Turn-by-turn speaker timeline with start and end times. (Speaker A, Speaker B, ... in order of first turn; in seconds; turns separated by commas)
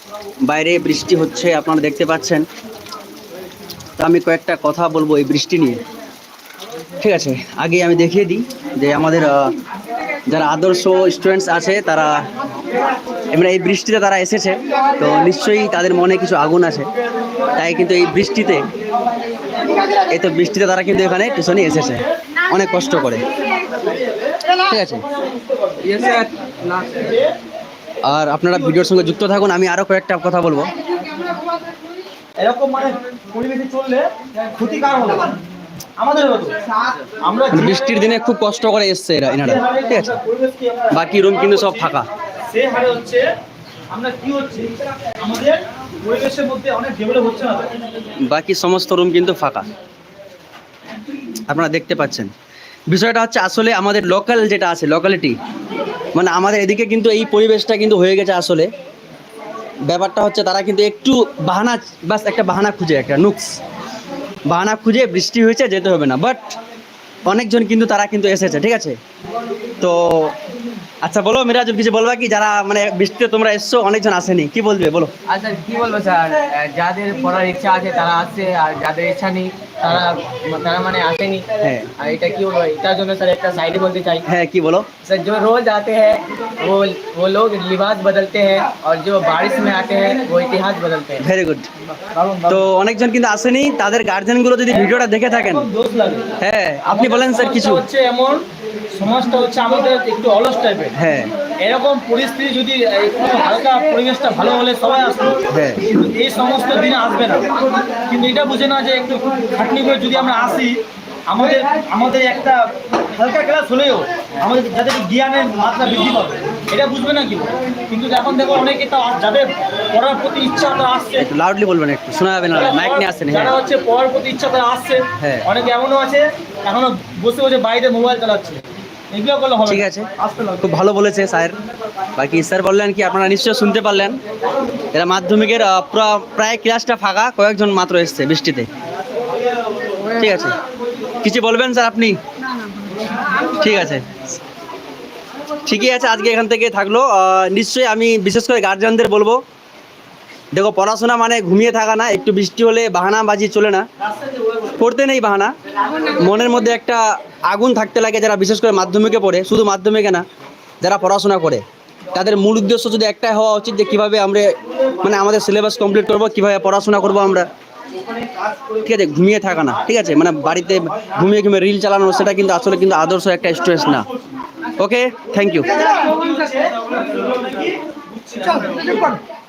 Speaker A: 0.5-2.5, Speaker A: 4.0-5.8, Speaker A: 7.0-9.6, Speaker A: 10.3-12.2, Speaker A: 13.3-16.9, Speaker A: 17.5-18.7, Speaker A: 19.9-23.3, Speaker B: 21.2-21.8, Speaker B: 23.4-24.5, Speaker A: 24.6-25.1, Speaker B: 25.0-26.2, Speaker C: 25.9-27.0, Speaker B: 27.0-27.3, Speaker A: 28.1-30.7, Speaker B: 32.4-35.4, Speaker B: 36.0-38.1, Speaker A: 37.5-40.1, Speaker B: 39.3-43.2, Speaker A: 40.9-42.1, Speaker B: 43.9-47.7, Speaker A: 48.2-49.7, Speaker A: 51.5-52.3, Speaker A: 52.9-55.4, Speaker A: 56.1-58.7, Speaker A: 59.9-63.6, Speaker A: 64.5-66.6, Speaker A: 67.2-69.0, Speaker A: 69.8-70.3, Speaker A: 71.0-75.1, Speaker C: 75.3-84.2, Speaker A: 81.6-81.9, Speaker A: 84.3-84.9, Speaker C: 85.0-91.2, Speaker A: 91.2-91.7, Speaker B: 92.1-92.6, Speaker A: 92.5-95.7, Speaker B: 95.4-96.4, Speaker A: 96.4-97.8, Speaker B: 96.9-101.0, Speaker A: 100.9-101.3, Speaker B: 101.5-121.3, Speaker A: 105.5-105.9, Speaker A: 121.2-123.6, Speaker B: 122.5-130.7, Speaker A: 125.2-125.5, Speaker A: 129.6-130.1, Speaker A: 130.6-131.6, Speaker A: 132.2-134.2, Speaker A: 134.9-138.7, Speaker A: 140.1-140.6, Speaker A: 141.2-142.2, Speaker A: 143.4-144.1, Speaker A: 145.7-149.4, Speaker A: 150.5-153.9, Speaker A: 154.6-160.2, Speaker A: 160.8-167.5, Speaker A: 168.8-174.1, Speaker A: 174.8-175.8, Speaker B: 175.7-179.2